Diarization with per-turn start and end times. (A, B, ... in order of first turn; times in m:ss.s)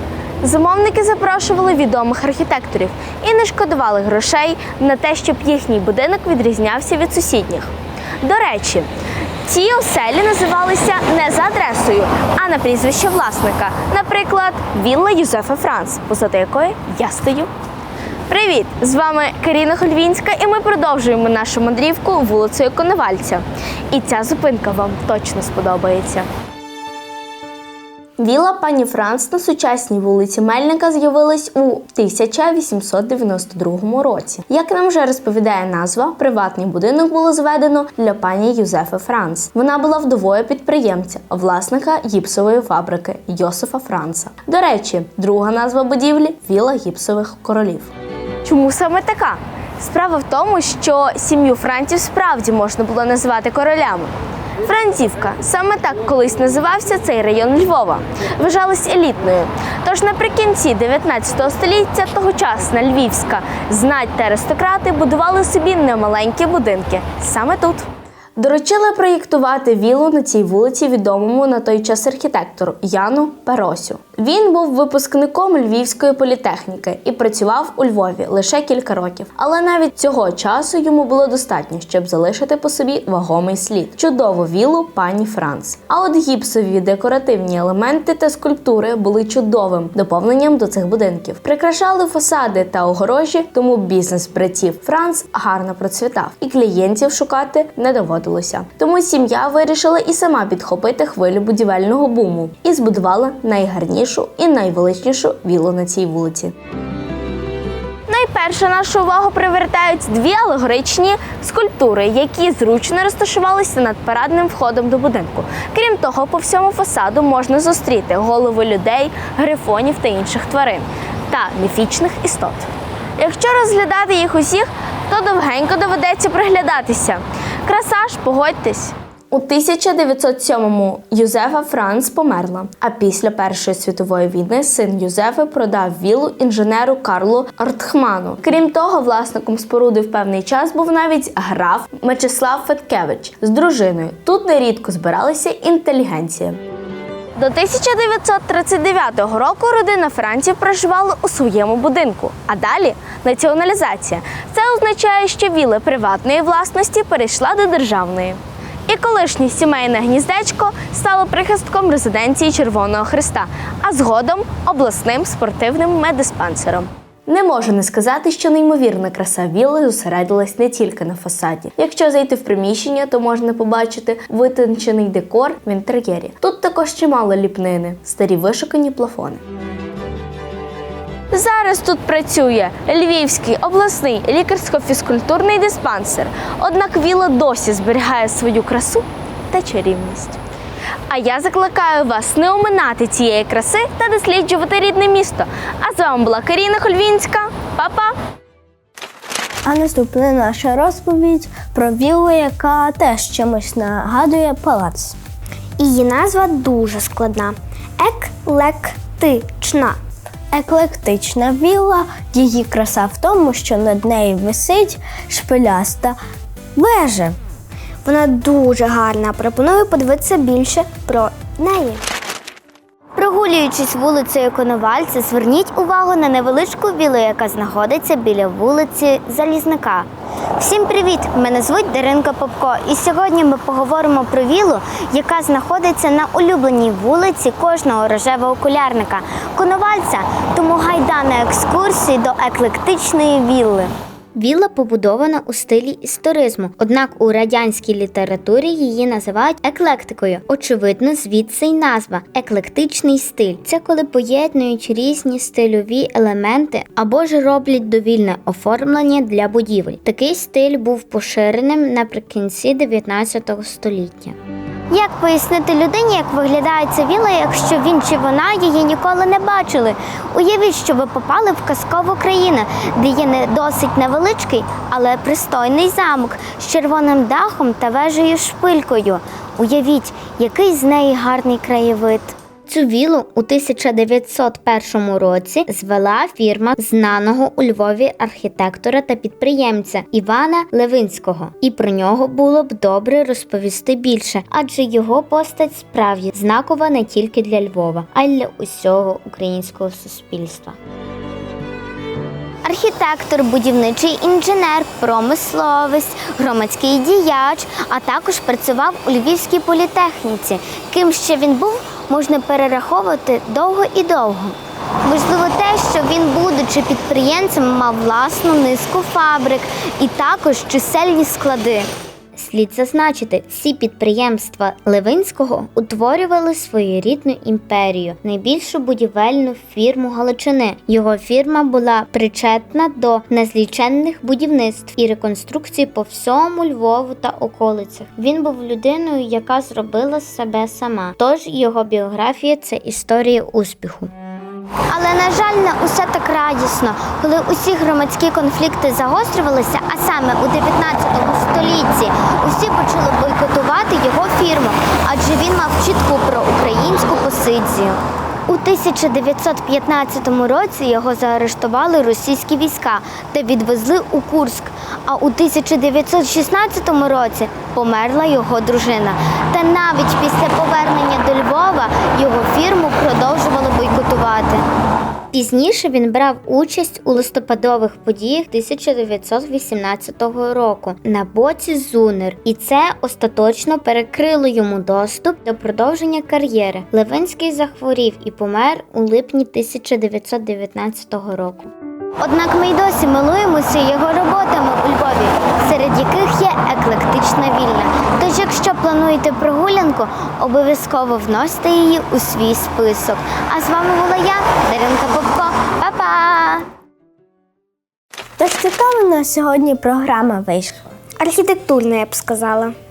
0:00.4-0:08.9 A
0:09.4-0:17.5 A
0:18.3-0:26.3 A
0:28.2-0:47.9 A
0:48.4-0:54.1 A
0:54.6-1:46.5 A
1:48.1-2:26.6 A
2:27.4-2:59.4 A
3:01.3-3:10.4 A
3:11.1-3:18.1 A
3:19.6-3:25.2 B
3:25.8-3:30.0 C
3:30.5-3:36.2 B
3:36.8-3:37.4 B
3:38.0-3:42.0 C
3:43.1-4:03.9 D
4:04.3-4:24.4 E
4:24.9-4:42.4 D
4:42.7-5:00.8 E
5:02.6-5:21.9 D
5:22.3-5:44.1 E
5:44.9-6:14.6 D
6:15.3-6:31.7 E
6:32.2-6:46.6 D
6:48.4-6:50.9 B
6:51.2-6:52.7 C